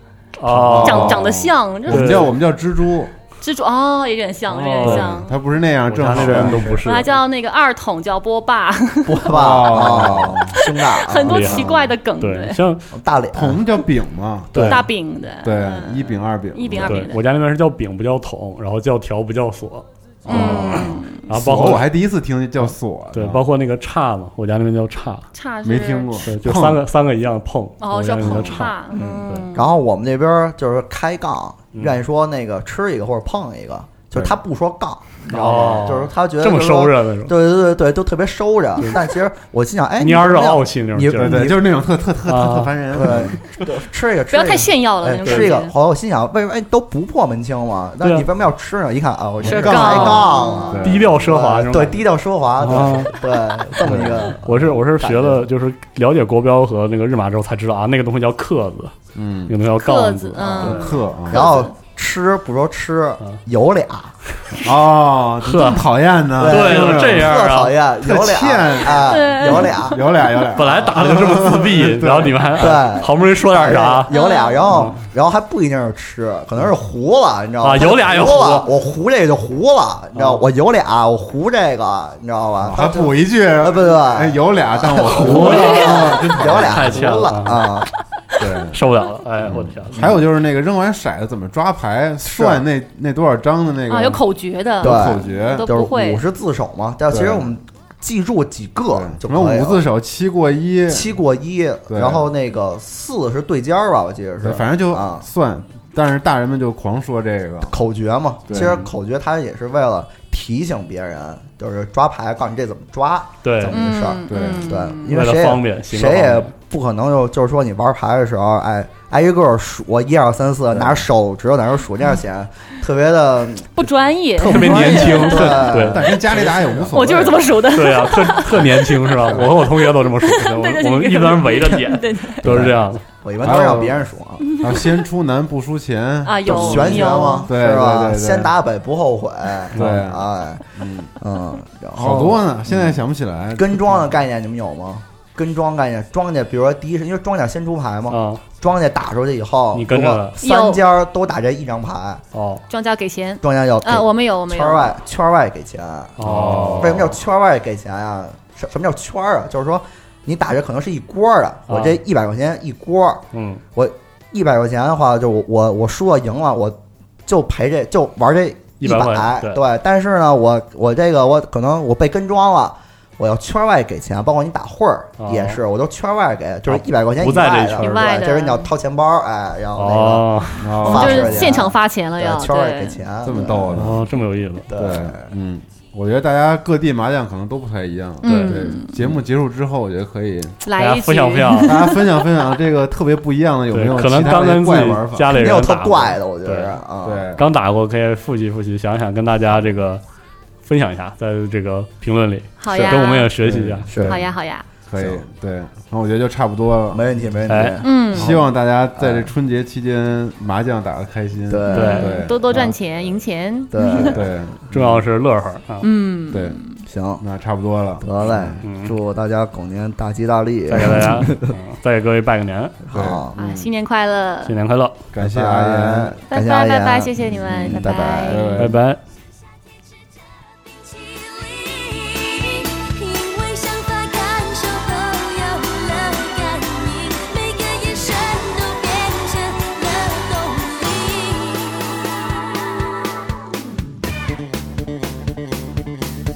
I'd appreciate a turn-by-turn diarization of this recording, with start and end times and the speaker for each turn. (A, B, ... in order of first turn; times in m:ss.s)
0:00.4-0:01.3 A
0:00.5-0:03.1 B
0:00.8-0:02.4 C
0:01.9-0:02.3 A
0:03.4-0:05.4 C
0:04.5-0:05.2 A
0:04.8-0:06.8 B
0:05.8-0:07.2 A
0:06.1-0:06.8 D
0:06.8-0:12.6 C
0:09.0-0:11.8 D
0:09.3-0:10.6 B
0:11.2-0:12.9 A
0:12.9-0:13.6 D
0:13.3-0:14.8 B
0:14.5-0:14.8 A
0:14.6-0:17.2 C
0:15.4-0:17.1 B
0:16.7-0:21.9 A
0:20.3-0:23.4 B
0:20.3-0:20.8 D
0:20.3-0:21.2 C
0:22.7-0:25.2 A
0:25.3-0:26.3 C
0:25.6-0:26.8 B
0:26.3-0:28.7 A
0:27.8-0:29.7 C
0:28.2-0:28.6 B
0:28.9-0:41.7 D
0:31.7-0:32.0 A
0:35.3-0:37.4 A
0:40.0-0:41.5 A
0:41.2-0:43.4 B
0:42.2-0:43.2 A
0:42.9-0:55.4 D
0:44.3-0:45.7 C
0:45.2-0:45.5 A
0:48.0-0:48.2 A
0:49.4-0:50.8 C
0:49.4-0:51.2 B
0:49.7-0:50.3 A
0:50.8-0:52.0 A
0:52.6-0:53.2 A
0:52.7-0:53.0 B
0:53.8-0:54.3 B
0:54.3-0:58.9 A
0:59.1-0:59.6 B
0:59.5-1:01.0 A
0:59.8-1:01.7 C
1:00.6-1:01.6 B
1:01.3-1:04.1 D
1:04.6-1:07.3 B
1:05.4-1:05.9 A
1:06.4-1:10.3 D
1:06.4-1:07.8 A
1:08.0-1:12.6 B
1:08.9-1:10.0 C
1:10.5-1:14.1 A
1:12.6-1:27.9 D
1:14.1-1:14.7 C
1:14.7-1:15.0 A
1:17.6-1:18.7 A
1:20.1-1:20.4 A
1:22.6-1:27.2 B
1:25.2-1:26.0 A
1:26.5-1:27.7 A
1:28.4-1:28.8 B
1:28.4-1:30.2 A
1:29.4-1:34.2 B
1:32.2-1:32.6 D
1:33.9-1:36.2 C
1:34.8-1:39.9 D
1:34.8-1:35.7 B
1:37.1-1:37.5 B
1:38.9-1:41.1 B
1:40.9-1:45.2 D
1:41.9-1:42.2 B
1:44.4-1:47.7 B
1:47.7-2:03.8 D
1:48.5-1:48.8 B
1:48.5-1:48.8 A
1:53.4-1:53.8 A
1:53.7-1:55.2 C
1:54.3-1:54.7 B
1:55.0-1:56.5 A
2:03.8-2:05.6 C
2:04.4-2:06.2 D
2:04.4-2:07.7 B
2:04.5-2:06.8 A
2:06.9-2:12.5 C
2:07.6-2:13.0 A
2:12.4-2:12.8 B
2:13.2-2:14.6 D
2:13.4-2:14.0 B
2:14.4-2:15.0 C
2:14.6-2:18.5 B
2:16.2-2:17.5 C
2:16.4-2:23.0 D
2:19.7-2:20.1 A
2:19.7-2:21.1 B
2:22.0-2:24.1 B
2:22.0-2:22.4 A
2:23.5-2:32.2 D
2:28.1-2:28.4 A
2:29.7-2:30.4 A
2:30.4-2:30.8 C
2:32.3-2:32.6 A
2:32.7-2:34.9 C
2:33.4-2:36.2 D
2:36.2-2:37.1 A
2:36.2-2:37.1 B
2:36.8-2:43.2 D
2:41.7-2:42.0 A
2:43.3-2:43.6 A
2:43.7-3:04.0 D
2:48.8-2:49.6 A
2:55.2-2:55.6 A
2:56.7-2:58.0 A
2:57.8-2:58.7 C
2:59.8-3:01.0 A
3:00.6-3:01.6 B
3:00.8-3:03.0 C
3:03.2-3:04.0 B
3:03.7-3:04.7 A
3:04.7-3:05.3 D
3:04.7-3:10.6 B
3:08.2-3:09.0 C
3:08.2-3:08.7 A
3:10.6-3:12.3 C
3:10.8-3:11.8 A
3:11.6-3:15.4 B
3:13.7-3:16.8 A
3:15.3-3:17.4 D
3:17.0-3:17.4 B
3:17.4-3:20.0 A
3:20.6-3:23.9 A
3:22.6-3:23.3 C
3:22.7-3:23.0 D
3:23.4-3:24.2 B
3:23.8-3:24.2 D
3:24.0-3:24.7 C
3:24.9-3:27.0 B
3:24.9-3:25.2 D
3:26.9-3:29.3 D
3:27.5-3:27.8 A
3:27.8-3:28.4 C
3:28.1-3:32.8 B
3:31.5-3:32.2 D
3:31.7-3:34.2 C
3:31.7-3:32.1 A
3:33.7-3:34.3 D
3:34.0-3:35.1 B
3:34.7-3:35.9 A
3:35.8-3:36.8 C
3:36.3-3:36.6 B
3:36.8-3:37.2 D
3:37.2-3:38.6 B
3:38.0-3:41.5 D
3:38.6-3:38.9 A
3:40.7-3:42.8 A
3:42.9-3:43.3 D
3:42.9-3:43.7 B
3:43.4-3:44.5 C
3:44.4-3:45.1 A
3:45.1-3:46.2 B
3:45.2-3:48.6 D
3:46.3-3:48.7 C
3:47.5-3:48.7 B
3:48.6-3:49.0 A
3:50.7-4:02.6 E